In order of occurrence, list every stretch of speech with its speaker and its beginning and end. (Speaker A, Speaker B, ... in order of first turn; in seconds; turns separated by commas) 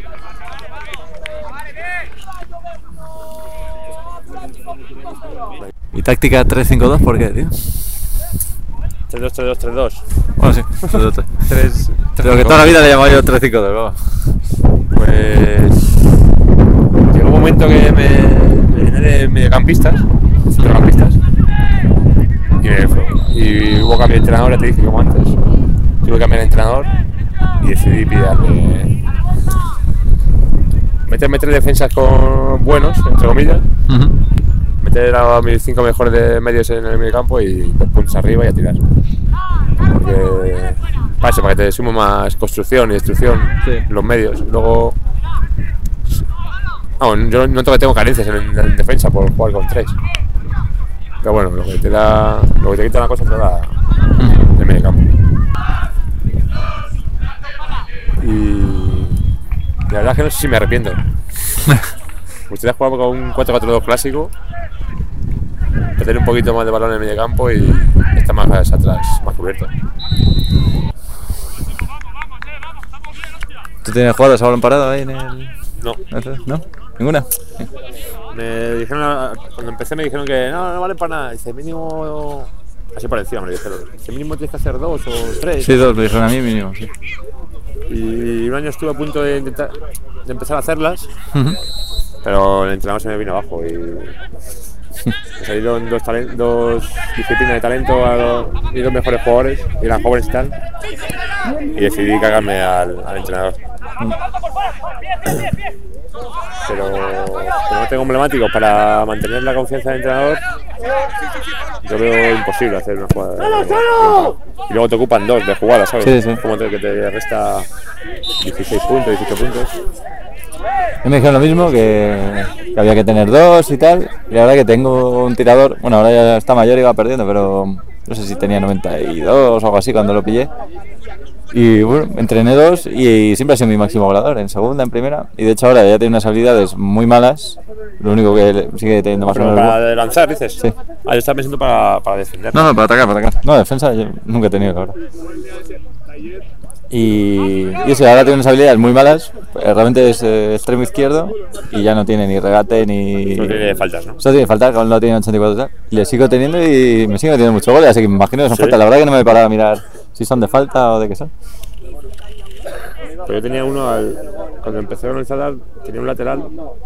Speaker A: 5.9-8.0, Speaker B: 9.1-10.1, Speaker A: 10.4-11.3, Speaker B: 10.8-12.9, Speaker A: 12.2-14.4, Speaker B: 14.9-16.0, Speaker B: 17.1-21.2, Speaker B: 22.6-25.4, Speaker B: 26.0-26.9, Speaker B: 27.6-28.9, Speaker B: 31.1-33.7, Speaker A: 33.9-34.1, Speaker B: 34.8-38.8, Speaker B: 39.9-45.0, Speaker B: 47.0-50.0, Speaker B: 51.2-53.7, Speaker B: 54.3-55.0, Speaker B: 58.2-59.2, Speaker B: 59.9-61.0, Speaker B: 62.5-64.3, Speaker B: 66.0-69.7, Speaker A: 73.8-75.5, Speaker A: 76.1-77.6, Speaker B: 78.3-85.8, Speaker A: 85.6-86.9, Speaker B: 87.9-91.1, Speaker A: 91.3-91.6, Speaker B: 92.2-94.2, Speaker B: 95.4-100.6, Speaker B: 101.7-103.6, Speaker B: 106.5-110.4, Speaker B: 111.8-117.7, Speaker A: 116.0-116.4, Speaker B: 118.4-119.8, Speaker A: 121.0-130.5, Speaker A: 131.5-139.8, Speaker B: 139.3-142.7, Speaker A: 142.5-144.9, Speaker A: 146.9-153.6, Speaker B: 153.3-154.2, Speaker A: 154.2-161.3, Speaker B: 158.5-158.8, Speaker B: 163.2-166.5